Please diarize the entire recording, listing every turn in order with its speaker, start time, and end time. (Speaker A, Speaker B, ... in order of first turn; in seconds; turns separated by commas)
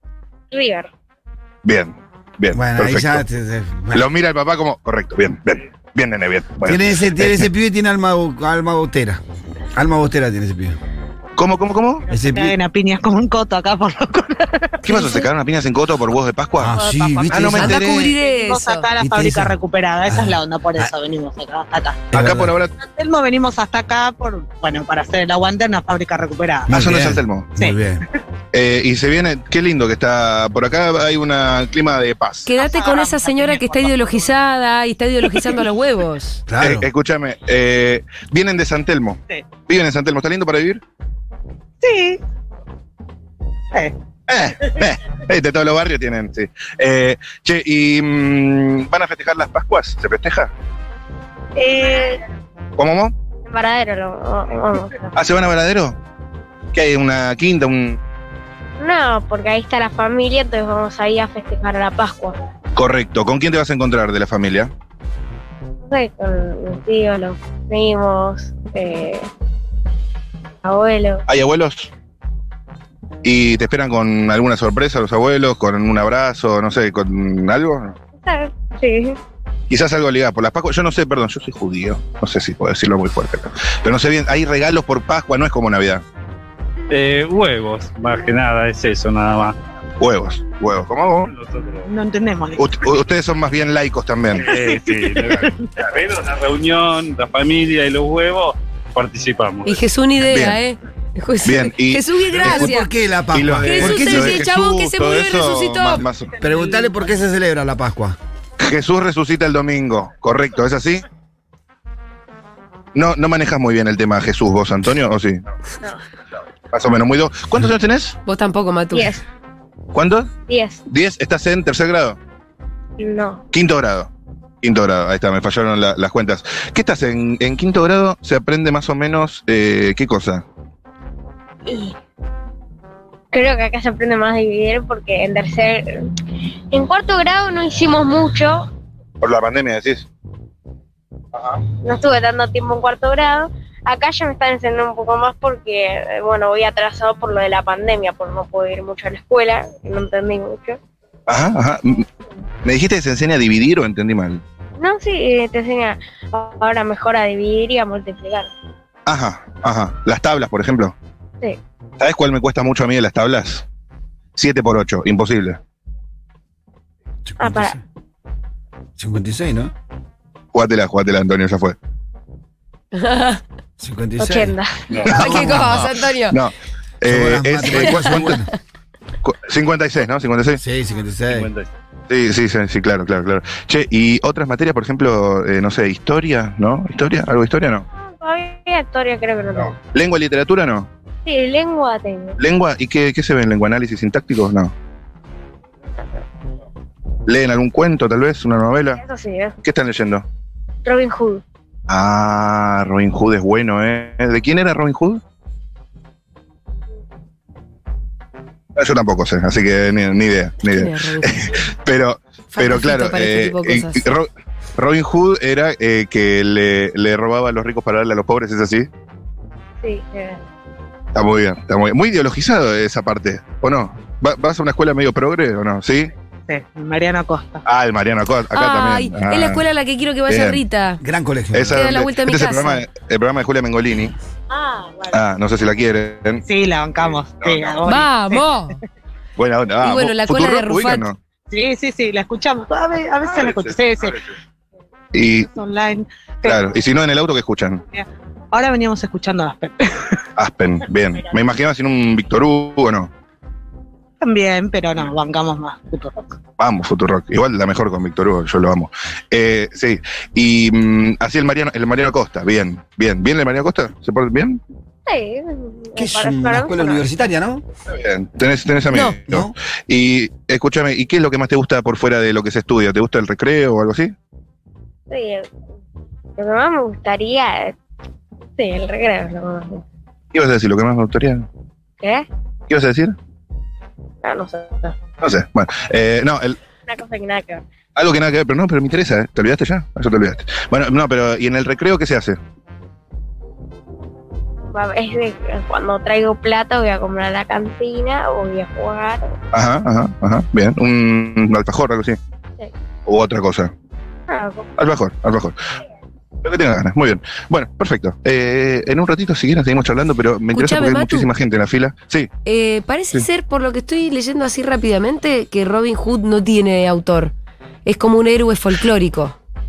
Speaker A: 0.5-0.9, Speaker B: 1.6-3.2, Speaker C: 2.5-4.0, Speaker B: 3.9-7.5, Speaker C: 6.6-9.2, Speaker C: 9.8-10.8, Speaker B: 11.4-12.1, Speaker D: 12.1-15.2, Speaker C: 12.1-12.5, Speaker B: 14.8-18.1, Speaker C: 16.6-18.1, Speaker D: 16.7-22.1, Speaker E: 17.5-18.9, Speaker C: 19.0-19.6, Speaker C: 20.1-20.9, Speaker C: 22.1-22.6, Speaker B: 22.1-22.7, Speaker D: 22.8-26.8, Speaker C: 26.7-28.0, Speaker B: 26.7-27.5, Speaker B: 28.5-32.5, Speaker E: 32.5-36.4, Speaker D: 32.5-34.4, Speaker C: 36.5-36.9, Speaker B: 36.6-40.8, Speaker D: 41.8-42.2, Speaker B: 44.3-50.5, Speaker D: 51.5-52.2, Speaker B: 52.8-53.1, Speaker A: 53.5-55.1, Speaker B: 55.1-56.0, Speaker B: 56.7-58.0, Speaker A: 58.8-62.4, Speaker B: 62.8-64.7, Speaker A: 65.8-69.3, Speaker A: 70.6-71.2, Speaker B: 71.3-71.9, Speaker B: 73.2-78.0, Speaker A: 78.2-79.2, Speaker B: 79.7-86.0, Speaker F: 86.9-89.6, Speaker B: 90.0-91.3, Speaker F: 91.3-91.9, Speaker D: 91.9-92.7, Speaker B: 92.6-94.5, Speaker F: 94.3-99.8, Speaker D: 94.4-95.7, Speaker E: 99.6-102.9, Speaker B: 100.2-100.6, Speaker B: 101.4-102.7, Speaker C: 102.3-104.4, Speaker B: 103.3-106.3, Speaker E: 103.6-106.0, Speaker C: 106.4-108.2, Speaker D: 106.5-107.0, Speaker B: 108.6-111.0, Speaker B: 112.9-115.4, Speaker B: 116.7-118.2, Speaker E: 118.2-119.2, Speaker A: 118.9-119.2, Speaker B: 119.9-120.3, Speaker A: 120.5-120.8, Speaker B: 120.9-122.2, Speaker A: 123.0-123.4, Speaker B: 123.5-124.1, Speaker B: 124.6-130.4, Speaker A: 131.7-131.9, Speaker A: 133.3-136.1, Speaker A: 136.7-138.7, Speaker B: 139.2-140.1, Speaker B: 141.3-141.6, Speaker A: 141.8-150.8, Speaker B: 151.3-152.1, Speaker B: 152.6-154.4, Speaker A: 154.8-158.5, Speaker B: 159.1-160.9, Speaker B: 162.0-163.6, Speaker B: 164.3-165.6, Speaker C: 167.3-167.8, Speaker A: 167.4-167.8, Speaker C: 169.0-169.7, Speaker B: 170.5-171.8, Speaker E: 172.9-173.4, Speaker C: 173.8-174.6, Speaker A: 174.2-174.8, Speaker F: 174.9-175.2, Speaker B: 175.0-178.4, Speaker E: 175.1-176.4, Speaker C: 177.1-178.5, Speaker E: 177.7-178.1, Speaker B: 179.2-180.6, Speaker C: 180.6-181.5, Speaker F: 181.3-181.7, Speaker B: 182.1-187.8, Speaker A: 188.1-189.8, Speaker B: 189.8-190.9, Speaker A: 191.2-192.4, Speaker B: 192.4-194.7, Speaker B: 197.2-199.0, Speaker A: 199.0-199.6, Speaker B: 199.6-200.2, Speaker A: 200.8-201.4, Speaker B: 201.9-205.2, Speaker B: 208.8-218.9, Speaker E: 210.6-211.4, Speaker E: 212.5-214.1, Speaker A: 219.8-220.4, Speaker B: 221.1-226.1, Speaker D: 226.5-227.6, Speaker B: 227.6-229.6, Speaker E: 228.5-231.0, Speaker B: 230.3-230.6, Speaker C: 231.0-231.8, Speaker B: 231.5-234.2, Speaker E: 231.7-232.8, Speaker D: 234.5-235.2, Speaker B: 235.1-236.4, Speaker D: 236.4-238.4, Speaker B: 237.4-237.8, Speaker E: 237.8-238.8, Speaker B: 239.4-241.2, Speaker E: 239.8-241.1, Speaker D: 241.5-244.3, Speaker B: 245.1-245.5, Speaker D: 245.4-246.6, Speaker B: 246.4-247.8, Speaker D: 247.9-250.2, Speaker B: 250.3-253.1, Speaker D: 254.2-256.3, Speaker B: 256.6-264.6, Speaker A: 265.1-267.0, Speaker C: 265.9-267.6, Speaker B: 267.9-274.1, Speaker E: 268.9-269.2, Speaker C: 269.3-269.5, Speaker A: 275.1-275.5, Speaker A: 276.4-277.7, Speaker A: 278.6-279.8, Speaker B: 280.3-281.5, Speaker A: 282.0-282.3, Speaker B: 282.7-283.1, Speaker A: 284.2-284.9, Speaker B: 285.2-286.6, Speaker A: 286.9-287.6, Speaker B: 287.9-292.4, Speaker A: 294.7-299.4, Speaker B: 299.5-302.2, Speaker B: 303.1-303.7, Speaker A: 304.3-304.7, Speaker B: 304.8-305.6, Speaker B: 306.4-312.3, Speaker E: 310.5-311.3, Speaker E: 312.4-317.3, Speaker E: 317.8-319.3